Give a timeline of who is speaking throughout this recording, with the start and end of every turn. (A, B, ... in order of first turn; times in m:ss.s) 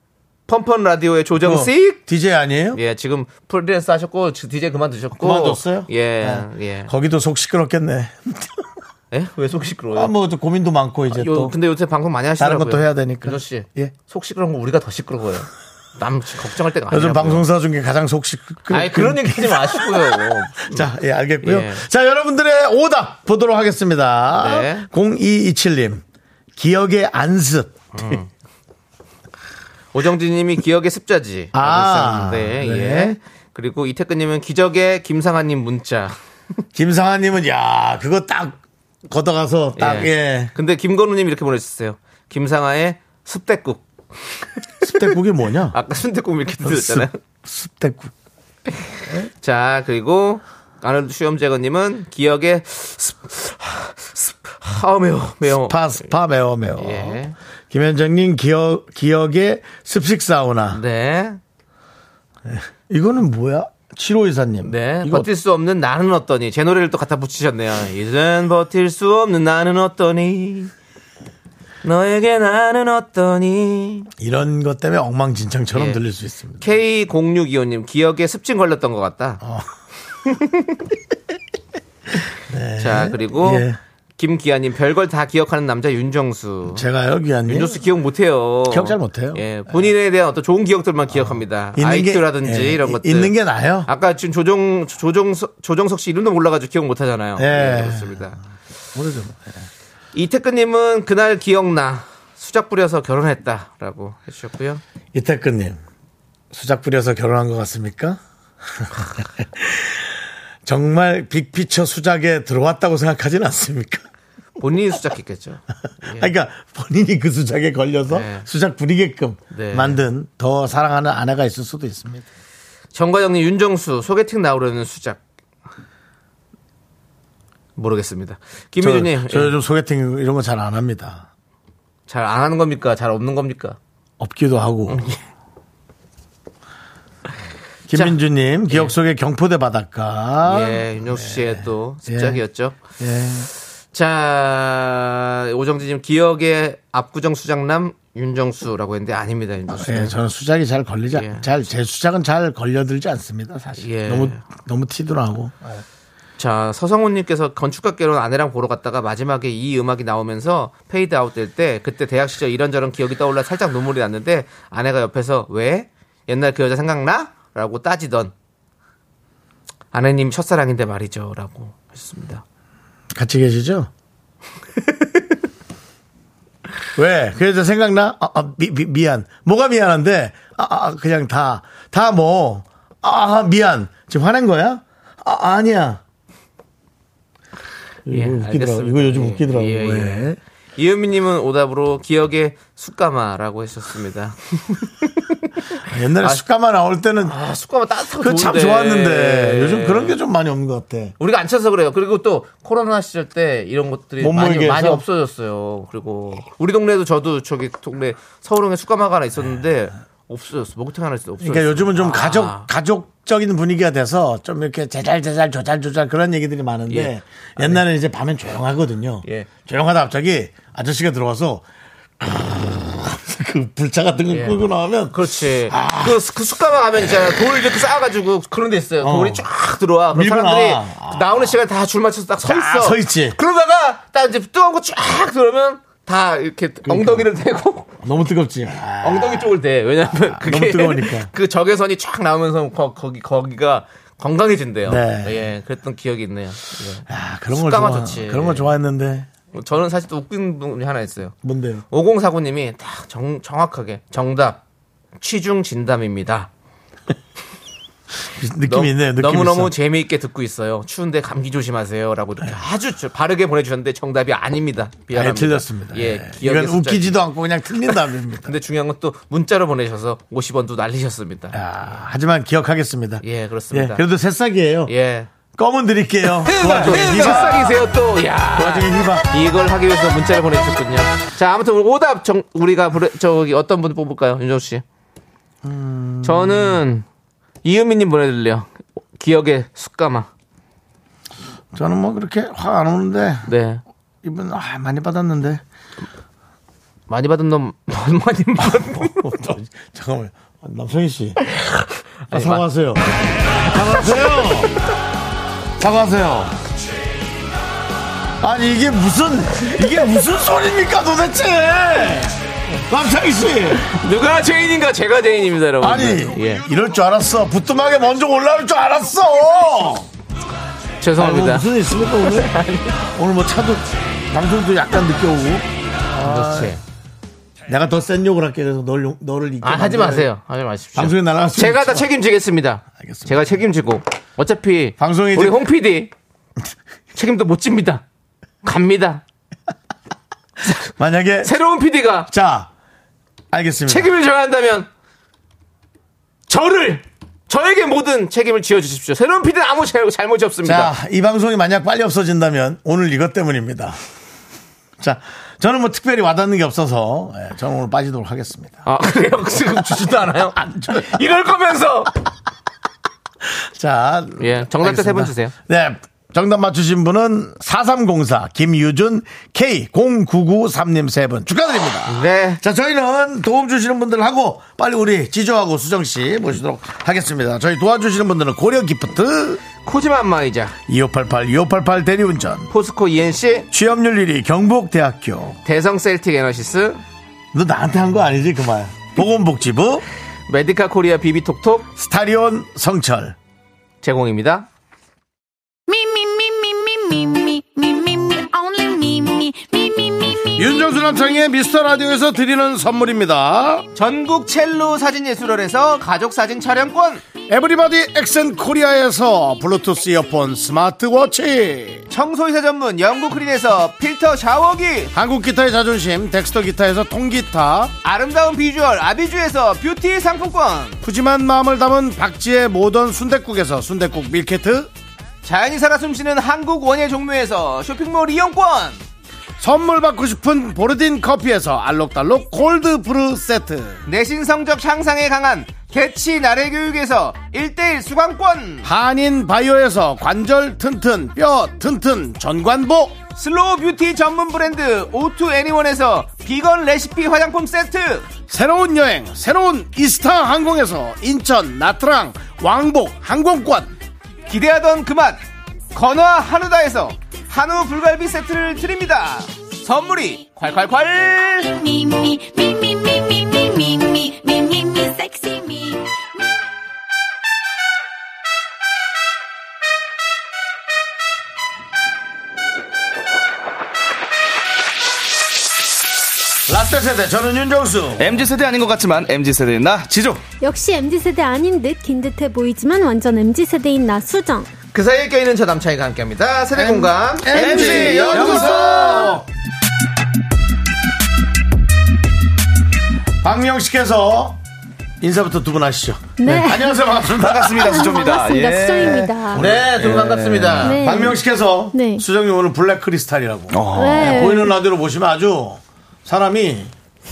0:00.5-0:02.0 A
0:01.4-0:02.8 B
0:02.7-0:06.9 A
0:05.2-0:08.6 B
0:09.1-0:10.1 A
0:09.9-0:11.6 B
0:11.1-0:17.5 A
0:12.4-0:13.9 B
0:16.9-0:26.0 B
0:18.7-0:20.9 A
0:21.4-0:21.9 A
0:24.4-0:24.9 A
0:26.6-0:28.2 B
0:27.9-0:28.3 A
0:29.9-0:36.2 A
0:31.5-0:33.2 B
0:36.7-0:40.5 B
0:39.8-0:43.8 A
0:44.8-0:45.1 A
0:44.8-0:45.8 B
0:45.7-0:47.2 A
0:46.6-0:48.1 B
0:49.4-0:56.1 A
0:55.5-0:57.2 B
0:56.8-0:57.4 A
0:57.7-1:00.8 B
1:00.7-1:01.4 A
1:02.5-1:05.3 B
1:04.6-1:10.7 A
1:11.8-1:14.1 A
1:14.2-1:16.7 B
1:15.7-1:16.0 A
1:16.6-1:19.4 A
1:19.4-1:19.7 B
1:20.3-1:20.8 A
1:22.5-1:23.8 B
1:22.8-1:23.7 A
1:24.2-1:26.8 A
1:26.7-1:27.8 B
1:27.5-1:33.3 A
1:28.7-1:29.4 B
1:31.1-1:33.9 B
1:33.9-1:38.4 A
1:37.4-1:38.2 B
1:38.9-1:39.7 B
1:40.1-1:44.8 A
1:45.1-1:45.8 B
1:46.5-1:48.2 B
1:48.7-1:54.0 B
1:54.6-1:56.3 A
1:56.2-2:02.3 B
1:58.1-1:58.5 A
1:59.5-2:00.0 A
2:02.9-2:05.2 A
2:07.8-2:09.5 A
2:08.8-2:11.3 B
2:12.1-2:13.8 A
2:14.2-2:15.0 B
2:14.9-2:15.2 A
2:17.9-2:22.4 B
2:18.7-2:18.9 A
2:20.4-2:22.8 A
2:23.0-2:23.5 B
2:23.9-2:30.2 A
2:29.7-2:35.6 B
2:31.1-2:31.5 A
2:33.8-2:34.4 A
2:36.4-2:48.3 A
2:49.9-2:52.4 A
2:53.1-2:53.9 B
2:57.0-3:06.0 B
3:08.1-3:10.4 B
3:08.1-3:15.4 A
3:15.9-3:17.4 B
3:17.2-3:20.2 A
3:18.2-3:21.2 B
3:21.2-3:32.7 A
3:24.2-3:25.0 B
3:31.4-3:41.6 B
3:36.9-3:37.8 A
3:42.2-3:45.2 B
3:44.3-3:44.6 A
3:45.1-3:57.9 A
3:45.7-3:46.2 B
3:49.0-3:49.4 B
3:50.1-3:51.6 B
3:52.4-3:53.4 B
3:56.8-3:57.3 B
3:58.0-3:59.5 B
3:59.0-4:08.7 A
4:00.1-4:01.3 B
4:04.9-4:05.5 B
4:07.1-4:09.3 B
4:09.5-4:11.3 A
4:11.4-4:11.8 B
4:11.9-4:14.6 A
4:15.2-4:16.5 A
4:18.3-4:19.7 B
4:18.7-4:27.2 A
4:25.1-4:28.5 B
4:28.4-4:31.9 A
4:31.5-4:34.9 B
4:33.2-4:34.0 A
4:34.9-4:35.3 A
4:35.5-4:37.8 B
4:36.4-4:44.8 A
4:36.8-4:37.3 C
4:38.6-4:39.3 B
4:45.6-4:46.8 B
4:46.2-4:47.0 A
4:47.6-4:50.3 A
4:51.7-4:53.5 B
4:53.5-4:53.8 A
4:54.2-4:55.6 B
4:57.1-4:59.5 A
4:58.6-5:01.4 B
5:01.5-5:02.6 A
5:02.3-5:03.0 B
5:03.5-5:04.8 B
5:05.8-5:06.6 B
5:08.4-5:13.9 B
5:13.8-5:16.6 A
5:15.8-5:20.1 B
5:21.0-5:23.1 A
5:21.2-5:22.6 B
5:23.2-5:26.8 B
5:26.2-5:26.8 A
5:27.7-5:30.3 B
5:29.6-5:36.1 A
5:31.0-5:32.1 B
5:33.0-5:33.5 B
5:35.0-5:35.6 B
5:37.2-5:38.0 A
5:38.6-5:39.2 A
5:40.9-5:41.6 B
5:41.4-5:42.3 A
5:42.3-5:42.7 B
5:43.5-5:44.1 B
5:43.9-5:44.9 A
5:46.5-5:50.9 A
5:50.6-5:54.0 B
5:55.0-5:58.9 B
5:58.9-6:02.1 A
6:00.5-6:01.2 B
6:03.4-6:19.6 B
6:04.4-6:05.5 A
6:12.1-6:12.6 A
6:19.8-6:20.8 A
6:20.9-6:22.7 B
6:22.7-6:23.7 A
6:23.7-6:25.6 B
6:25.6-6:27.0 A
6:27.5-6:30.0 B
6:30.5-6:31.9 A
6:32.0-6:33.4 B
6:34.0-6:34.7 A
6:35.9-6:40.5 D
6:40.6-6:43.9 B
6:44.0-6:47.2 A
6:47.5-6:52.0 B
6:52.1-6:55.1 A
6:55.1-6:57.9 B
6:58.0-7:01.0 A
7:01.0-7:04.9 B
7:05.4-7:09.0 A
7:09.6-7:14.0 B
7:14.1-7:18.9 A
7:18.8-7:23.2 B
7:23.4-7:28.3 A
7:28.5-7:33.9 B
7:34.5-7:35.4 A
7:35.9-7:41.7 A
7:41.5-7:46.2 D
7:56.7-7:58.4 B
7:58.2-8:00.4 C
8:00.6-8:04.7 E
8:04.9-8:08.9 A
8:06.8-8:09.4 B
8:07.5-8:09.3 C
8:08.4-8:09.3 E
8:13.4-8:14.6 B
8:15.2-8:18.0 B
8:16.4-8:17.2 E
8:17.3-8:21.2 C
8:17.7-8:19.6 E
8:19.5-8:20.3 B
8:19.6-8:21.0 A
8:20.8-8:22.2 E
8:20.9-8:26.9 B
8:23.7-8:24.4 C
8:23.9-8:24.8 E